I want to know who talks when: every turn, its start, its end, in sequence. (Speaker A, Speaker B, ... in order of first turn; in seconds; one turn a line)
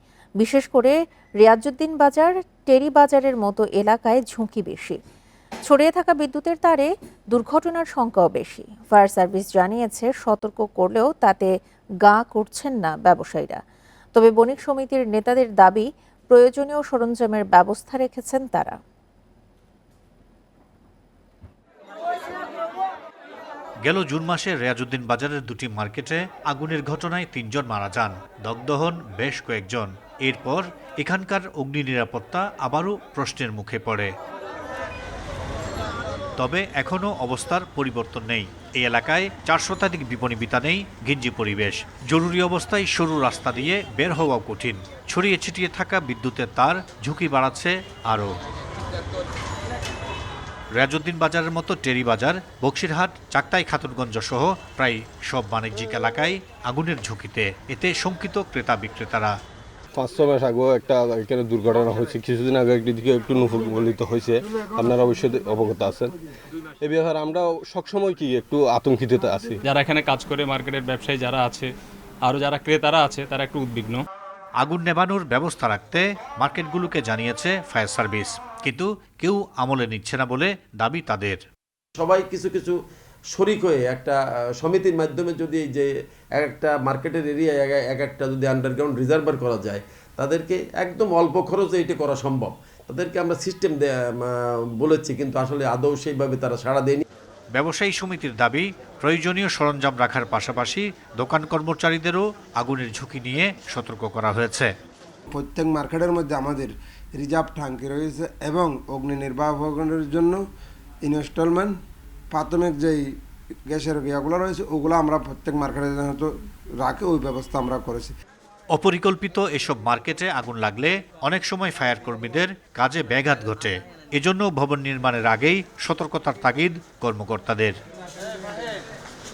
Speaker A: 0.4-5.0
Speaker A: 5.7-11.5
Speaker A: 12.0-13.6
Speaker A: 14.2-18.8
Speaker B: 23.9-34.1
Speaker B: 36.4-48.4
Speaker B: 50.7-59.3
Speaker C: 60.0-66.2
Speaker C: 66.8-69.6
Speaker D: 69.7-71.7
Speaker D: 72.2-74.0
Speaker B: 74.6-81.4
Speaker E: 82.0-97.0
Speaker B: 97.5-104.7
Speaker F: 105.3-110.4
Speaker F: 111.1-111.8
Speaker F: 112.3-113.0
Speaker F: 113.7-116.3
Speaker F: 116.8-118.1
Speaker B: 118.7-127.8